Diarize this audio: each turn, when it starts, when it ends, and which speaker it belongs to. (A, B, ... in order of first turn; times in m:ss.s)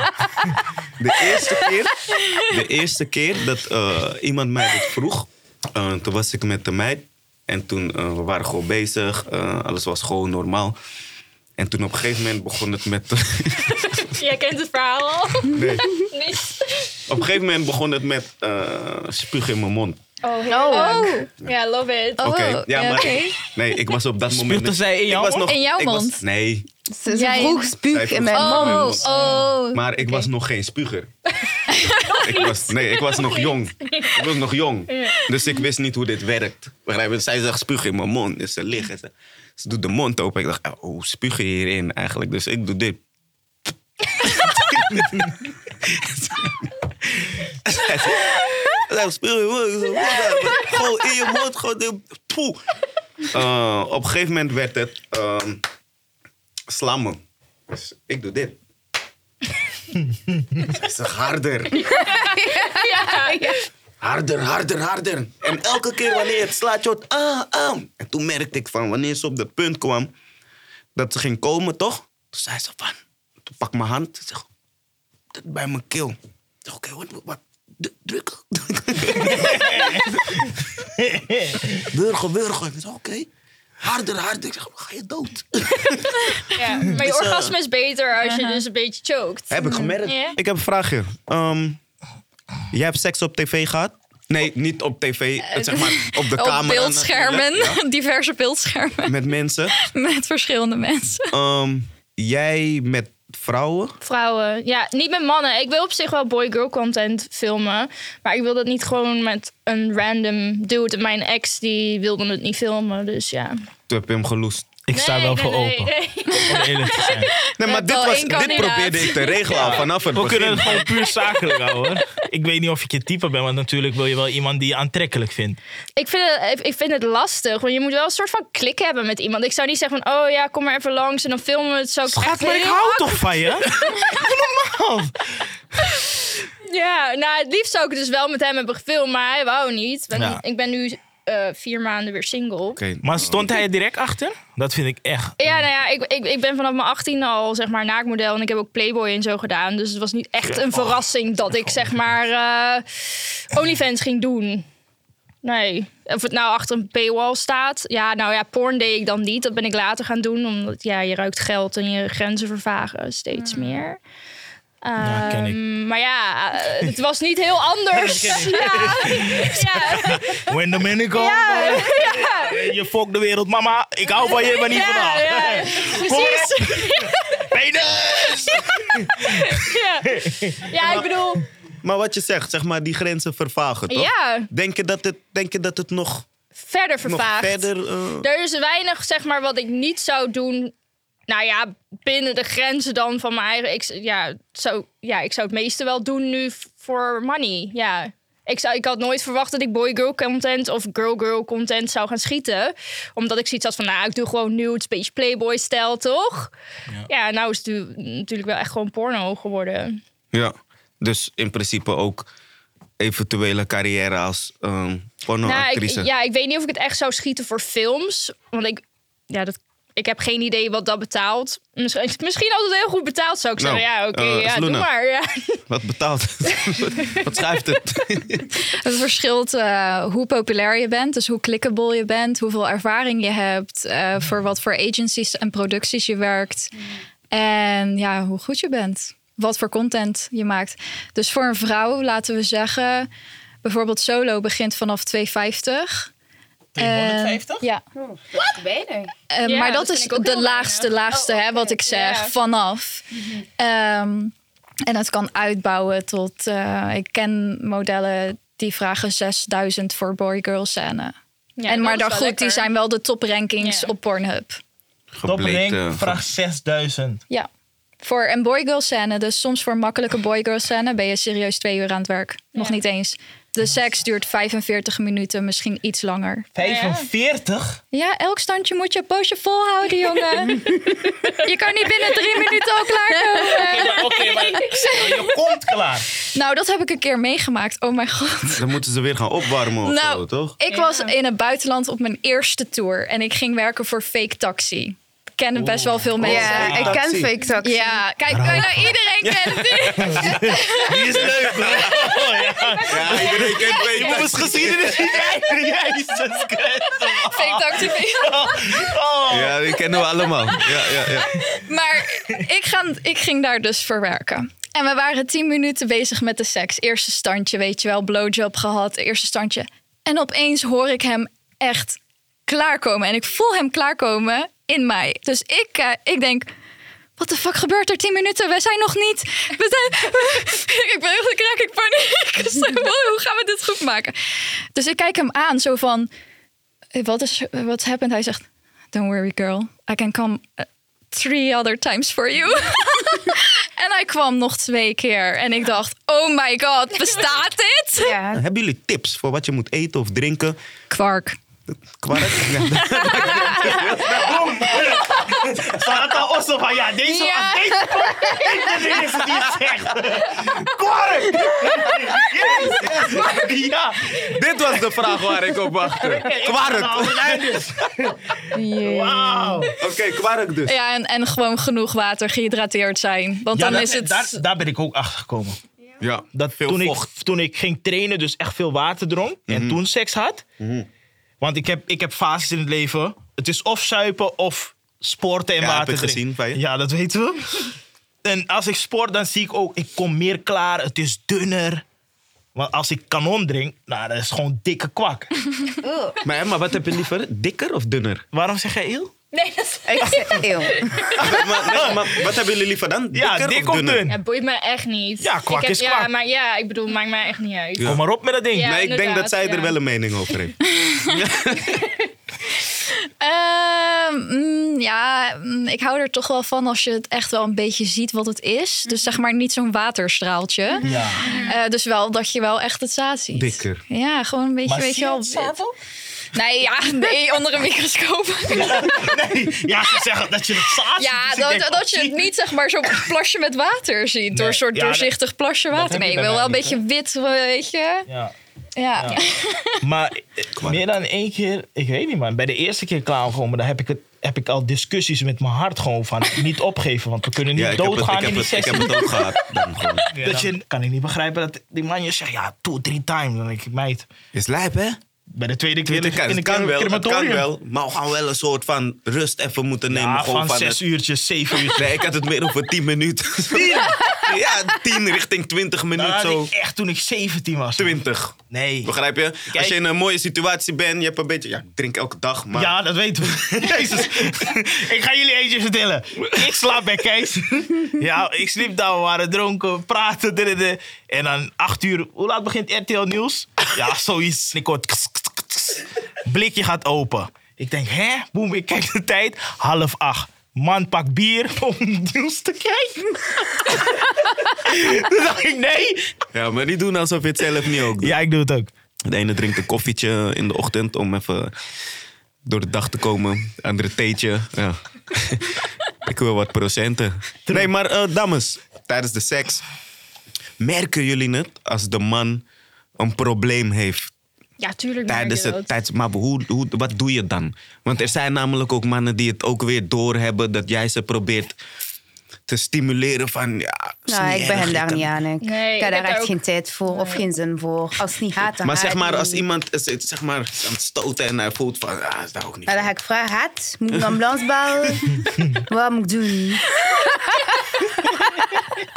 0:01.0-0:10.8 A
0:02.2-0:02.4 B
0:11.6-0:14.1 A
0:13.9-0:17.0 C
0:15.5-0:16.0 A
0:17.1-0:20.0 A
0:20.2-0:22.3 C
0:20.4-0:21.2 D
0:20.6-0:21.2 B
0:22.2-0:26.6 A
0:22.2-0:23.4 B
0:24.3-0:25.5 E
0:25.3-0:26.2 B
0:26.9-0:29.1 D
0:27.1-0:27.7 B
0:27.8-0:29.1 A
0:28.3-0:30.3 B
0:29.1-0:29.5 C
0:29.7-0:31.1 A
0:31.4-0:34.2 C
0:31.7-0:32.2 B
0:32.2-0:43.0 A
0:34.9-0:35.2 C
0:44.2-0:46.7 A
0:47.6-0:52.6 A
0:53.2-0:55.6 A
0:56.7-0:58.6 A
1:00.6-1:01.9 A
1:01.8-1:03.6 D
1:02.0-1:03.6 C
1:04.0-1:10.1 A
1:10.9-1:14.5 A
1:15.3-1:20.5 A
1:19.3-1:20.2 E
1:21.0-1:21.9 E
1:21.8-1:23.3 A
1:23.8-1:27.6 A
1:26.5-1:30.4 C
1:28.2-1:28.6 B
1:29.5-1:31.8 A
1:29.6-1:30.0 D
1:32.7-1:37.8 A
1:35.5-1:39.2 B
1:39.0-1:39.7 A
1:39.7-1:41.3 B
1:41.3-1:44.0 A
1:44.0-1:53.6 C
1:53.9-1:54.7 A
1:54.9-1:55.9 E
1:54.9-1:57.2 C
1:56.4-1:57.3 E
1:56.9-1:59.5 B
1:57.6-2:01.0 A
1:58.3-1:58.7 C
1:59.5-2:05.6 E
2:06.0-2:13.9 C
2:12.1-2:15.5 E
2:16.6-2:22.8 C
2:20.1-2:20.4 E
2:22.7-2:23.6 A
2:23.0-2:25.5 E
2:25.4-2:34.6 C
2:35.4-2:44.0 C
2:44.8-2:50.5 C
2:45.0-2:45.6 E
2:47.9-3:00.7 E
2:51.1-2:52.8 C
2:54.2-2:57.5 C
2:58.4-3:01.4 C
3:00.8-3:01.1 A
3:01.8-3:06.2 A
3:03.9-3:04.5 C
3:06.6-3:07.7 C
3:07.0-3:08.3 A
3:08.2-3:10.7 C
3:11.3-3:26.5 C
3:27.1-3:30.0 C
3:30.3-3:32.3 A
3:33.0-3:36.1 A
3:35.4-3:45.6 C
3:43.6-3:44.9 A
3:45.7-3:48.5 A
3:47.0-3:47.4 C
3:48.7-3:56.7 B
3:57.3-4:03.1 B
4:03.6-4:06.1 B
4:06.8-4:07.6 E
4:06.8-4:07.8 B
4:07.9-4:09.1 D
4:09.3-4:13.0 B
4:09.4-4:12.3 C
4:13.6-4:14.3 B
4:14.9-4:21.1 B
4:21.6-4:22.7 C
4:21.7-4:24.6 B
4:23.6-4:23.9 C
4:25.1-4:26.2 A
4:25.2-4:27.2 E
4:28.0-4:36.5 B
4:36.5-4:37.8 E
4:36.6-4:37.1 C
4:37.9-4:45.1 B
4:40.4-4:41.0 D
4:43.5-4:46.1 E
4:44.0-4:45.2 C
4:46.3-4:48.7 B
4:48.4-4:50.6 A
4:49.8-4:57.0 B
4:50.7-4:51.1 C
4:55.6-4:57.3 A
4:56.2-4:58.0 D
4:57.6-5:01.0 B
4:58.3-4:58.9 E
4:59.2-5:02.2 A
5:00.0-5:10.1 E
5:02.8-5:05.3 A
5:07.2-5:08.8 B
5:09.3-5:11.4 A
5:11.3-5:26.5 B
5:27.2-5:36.1 B
5:36.9-5:48.1 B
5:48.0-5:48.4 D
5:48.3-5:50.6 A
5:50.9-5:51.4 B
5:51.7-5:54.9 A
5:52.9-5:53.5 B
5:53.6-6:04.4 E
5:57.3-5:58.6 D
5:59.2-5:59.7 A
6:02.7-6:03.3 A
6:04.2-6:07.6 A
6:05.8-6:09.7 E
6:08.5-6:09.7 D
6:09.8-6:10.7 A
6:10.6-6:14.4 B
6:13.5-6:15.6 E
6:16.0-6:17.1 A
6:16.3-6:20.4 E
6:19.5-6:19.8 A
6:20.6-6:20.9 A
6:21.4-6:31.8 E
6:25.6-6:26.6 A
6:32.5-6:35.5 E
6:35.8-6:36.2 D
6:36.2-6:38.2 A
6:38.3-6:39.1 E
6:39.3-6:41.2 C
6:39.9-6:41.3 D
6:40.0-6:40.4 E
6:41.2-6:44.0 A
6:41.4-6:42.1 E
6:43.1-6:44.2 E
6:44.1-6:47.9 C
6:45.2-6:46.1 E
6:47.8-6:48.0 A
6:47.8-6:48.7 E
6:48.5-6:49.8 C
6:48.6-6:51.9 A
6:50.7-6:51.1 B
6:52.9-7:05.5 B
7:00.8-7:01.4 E
7:03.3-7:03.8 A
7:04.6-7:05.7 E
7:06.3-7:09.2 B
7:08.5-7:12.3 E
7:11.0-7:18.1 B
7:14.3-7:15.1 E
7:15.7-7:16.8 E
7:18.1-7:18.3 E
7:18.8-7:19.8 B
7:19.0-7:19.2 E
7:19.8-7:29.2 E
7:20.6-7:20.8 A
7:27.5-7:30.5 A
7:30.1-7:34.0 E
7:34.3-7:35.0 A
7:35.3-7:37.5 E
7:35.8-7:40.8 A
7:39.9-7:42.0 E
7:41.7-7:46.5 A
7:43.5-7:44.1 E
7:45.9-7:48.9 E
7:47.8-7:52.8 A
7:49.5-7:49.8 E
7:52.5-8:16.1 E
7:53.6-7:54.0 A
8:16.3-8:18.1 A
8:18.0-8:18.7 E
8:19.0-8:21.5 A
8:22.4-8:29.6 A
8:30.6-8:32.4 A
8:33.0-8:34.1 A
8:34.6-8:35.7 C
8:35.1-8:41.6 A
8:42.5-8:45.1 A
8:44.1-8:49.4 D
8:45.4-8:47.2 C
8:48.6-8:52.9 A
8:52.7-8:57.8 D